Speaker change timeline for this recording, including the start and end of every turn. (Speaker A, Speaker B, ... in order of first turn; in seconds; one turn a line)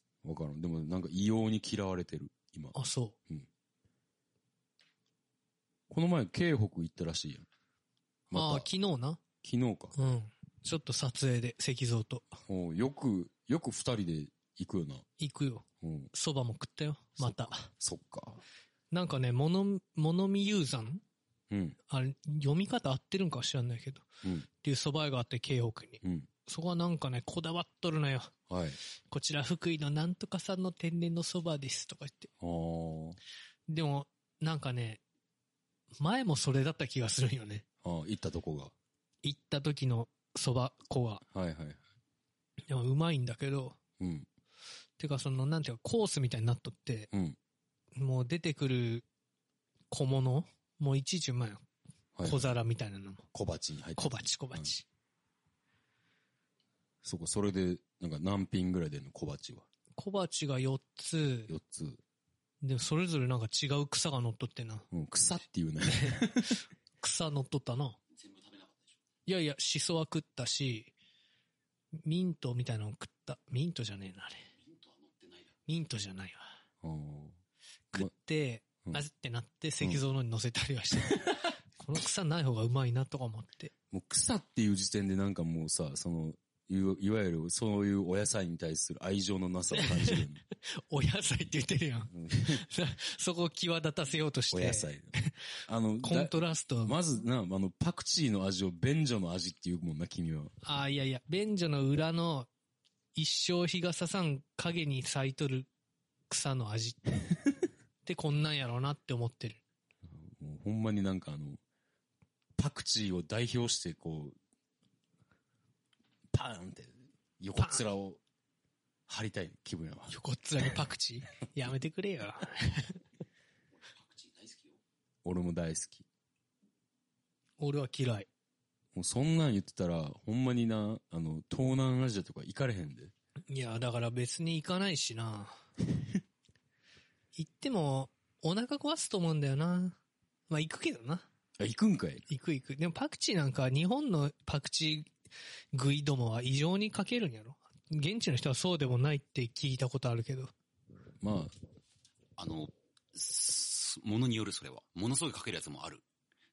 Speaker A: 0.2-2.8
Speaker B: 2.7-3.1
Speaker A: 5.9-7.5
Speaker A: 8.3-8.7
Speaker B: 8.3-9.2
Speaker A: 9.4-9.9
Speaker B: 10.0-12.4
Speaker A: 12.5-15.0
Speaker B: 15.2-17.7
Speaker A: 15.8-16.1
Speaker A: 17.2-18.4
Speaker B: 18.9-21.0
Speaker A: 21.5-21.8
Speaker B: 21.9-24.1
Speaker B: 24.6-28.3
Speaker A: 26.0-26.3
Speaker A: 28.5-28.8
Speaker B: 29.0-32.3
Speaker A: 32.4-33.2
Speaker B: 33.7-35.0
Speaker B: 36.0-37.6
Speaker A: 37.8-38.7
Speaker B: 39.2-41.2
Speaker A: 41.3-41.8
Speaker B: 42.7-43.8
Speaker A: 44.0-44.3
Speaker B: 45.0-47.1
Speaker A: 47.1-47.4
Speaker B: 47.9-49.0
Speaker B: 49.9-51.6
Speaker A: 52.1-52.5
Speaker B: 52.2-53.2
Speaker A: 53.3-54.7
Speaker B: 54.0-54.9
Speaker A: 57.0-59.6
Speaker B: 60.0-61.5
Speaker A: 61.5-62.0
Speaker B: 62.6-64.9
Speaker A: 64.9-66.5
Speaker B: 65.8-68.0
Speaker C: 68.2-68.9
Speaker B: 69.2-70.9
Speaker B: 72.0-74.5
Speaker C: 74.6-75.5
Speaker B: 75.7-76.5
Speaker A: 76.8-77.4
Speaker B: 77.9-83.7
Speaker A: 83.9-90.4
Speaker B: 89.7-95.3
Speaker A: 92.1-92.6
Speaker A: 94.5-95.1
Speaker A: 95.7-100.5
Speaker B: 96.0-97.0
Speaker B: 100.6-102.5
Speaker B: 103.1-105.7
Speaker B: 106.3-107.1
Speaker B: 108.0-109.6
Speaker A: 110.1-111.6
Speaker A: 112.6-114.4
Speaker A: 116.3-118.2
Speaker B: 117.6-117.8
Speaker A: 119.1-120.1
Speaker B: 120.1-123.0
Speaker C: 123.8-124.8
Speaker A: 125.2-126.0
Speaker B: 127.6-128.3
Speaker A: 128.9-133.1
Speaker B: 133.5-135.6
Speaker B: 137.3-140.0
Speaker B: 140.5-141.3
Speaker A: 141.6-142.2
Speaker B: 142.3-145.1
Speaker B: 145.7-150.5
Speaker A: 151.2-151.5
Speaker C: 152.4-156.0